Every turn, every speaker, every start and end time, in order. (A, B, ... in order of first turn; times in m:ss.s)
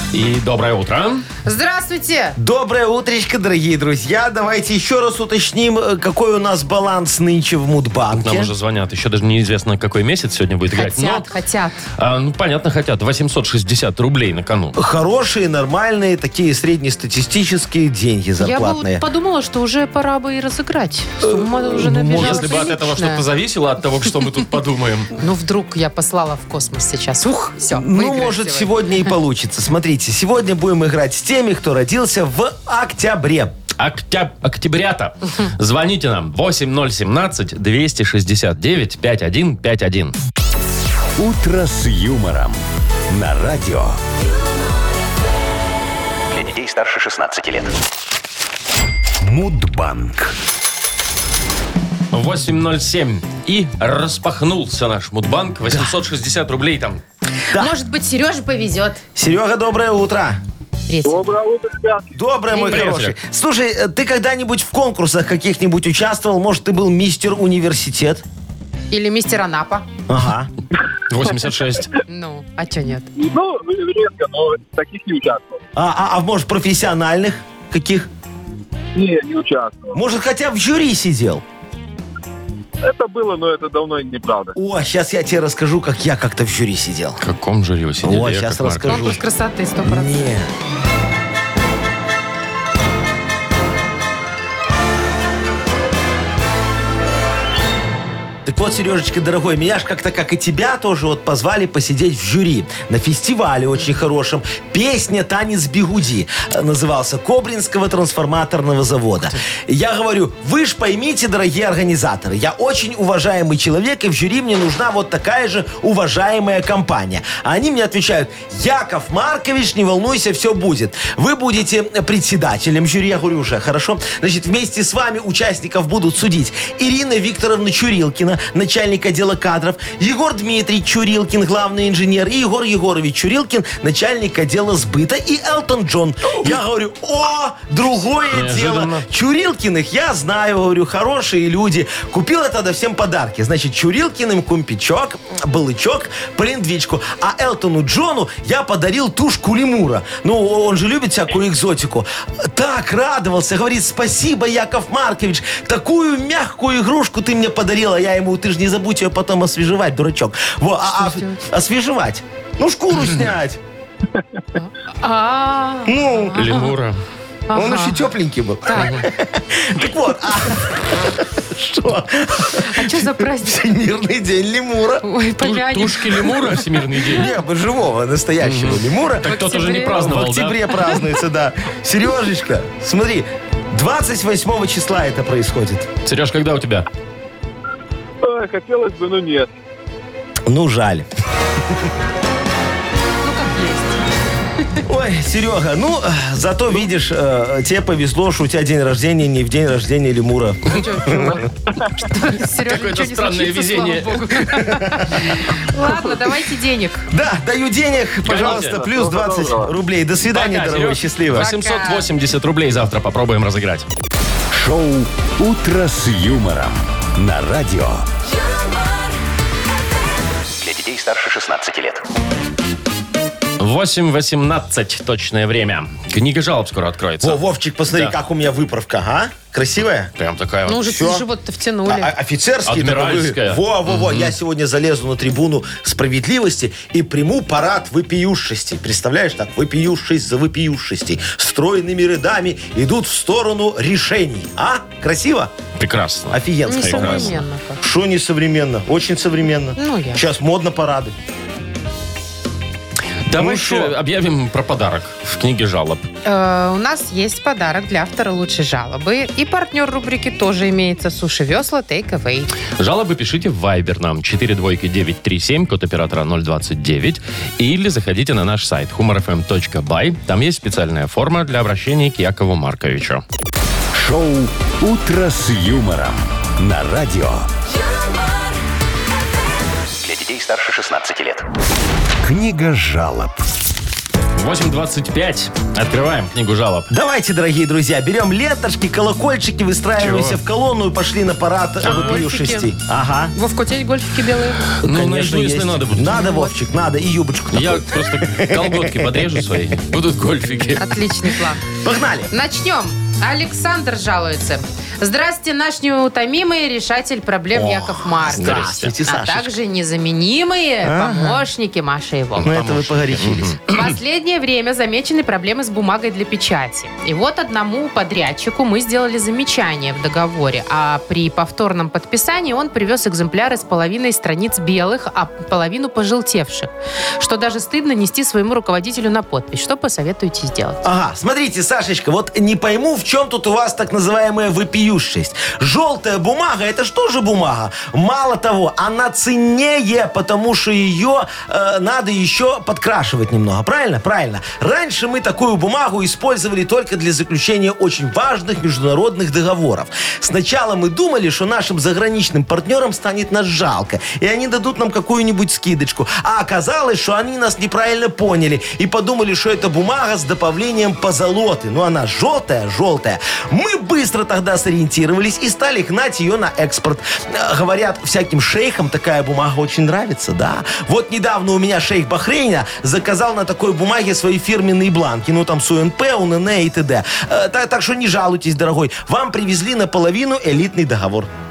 0:00.1-0:01.3 A
0:01.4-0:02.4 B
0:02.4-0:08.5 C
0:08.1-0:11.3 A
0:10.7-0:11.8 B
0:12.0-0:14.8 A
0:14.8-0:19.0 C
0:18.4-0:23.2 B
0:21.2-0:22.6 C
0:22.1-0:25.1 A
0:25.2-0:28.7 B
0:27.7-0:33.6 C
0:33.8-0:40.2 A
0:41.2-0:42.6 D
0:43.1-0:44.0 D
0:46.3-0:47.7 E
0:49.2-0:50.3 D
0:52.1-0:57.0 A
0:57.5-0:59.0 B
0:59.2-1:00.4 C
1:00.9-1:01.3 B
1:01.0-1:02.2 F
1:02.2-1:08.2 C
1:02.5-1:02.8 B
1:02.6-1:03.2 A
1:08.9-1:09.9 B
1:10.1-1:10.5 C
1:11.1-1:11.9 A
1:12.1-1:13.1 B
1:13.2-1:15.6 F
1:15.8-1:18.1 C
1:19.0-1:20.0 F
1:19.9-1:21.4 C
1:22.8-1:24.6 F
1:24.6-1:27.2 C
1:27.2-1:29.0 A
1:28.0-1:29.2 C
1:28.9-1:30.4 B
1:29.8-1:30.5 C
1:38.4-2:43.6 C
2:18.3-2:19.0 A
2:40.9-2:41.4 B
2:44.5-2:46.7 B
2:45.9-2:46.5 C
2:46.4-2:47.0 A
2:47.5-2:48.0 B
2:47.5-2:55.0 C
2:48.6-2:49.0 B
2:48.8-2:49.0 A
2:52.6-2:53.6 B
2:55.0-2:56.7 B
2:55.4-2:57.3 A
2:57.1-3:05.9 C
2:58.4-3:00.7 A
2:59.2-3:00.1 B
3:06.0-3:06.9 A
3:08.2-3:09.5 F
3:10.5-3:11.1 C
3:13.2-3:14.0 B
3:14.8-3:21.4 C
3:20.7-3:27.1 B
3:22.6-3:24.5 A
3:27.1-3:31.5 C
3:28.2-3:28.8 A
3:28.3-3:29.7 F
3:30.3-3:33.9 A
3:31.3-3:32.1 B
3:34.5-3:38.1 D
3:40.6-3:42.0 E
3:43.6-3:48.1 A
3:47.2-3:50.1 C
3:50.2-3:50.8 A
3:50.7-3:52.1 B
3:50.8-3:51.3 C
3:51.9-4:05.5 C
3:52.7-3:54.3 A
4:05.8-4:07.4 A
4:06.3-4:11.1 C
4:06.7-4:07.8 B
4:09.8-4:10.2 B
4:13.3-4:16.0 A
4:13.3-4:13.9 C
4:16.2-4:22.5 B
4:22.8-4:33.2 A
4:33.9-4:37.5 D
4:40.0-4:41.4 E
4:42.2-4:43.4 D
4:44.4-4:46.9 A
4:46.9-4:53.4 C
4:50.0-4:50.4 A
4:51.8-4:52.2 A
4:51.8-4:52.7 B
4:53.4-4:54.7 B
4:54.8-4:59.1 C
4:54.8-4:56.2 A
4:56.1-4:56.5 B
4:57.5-5:01.0 A
5:00.8-5:01.6 B
5:01.8-5:02.3 C
5:02.3-5:12.5 B
5:07.5-5:09.6 C
5:08.4-5:08.7 A
5:10.8-5:11.5 C
5:12.4-5:13.6 C
5:12.5-5:13.8 A
5:13.7-5:30.8 B
5:30.8-6:21.3 C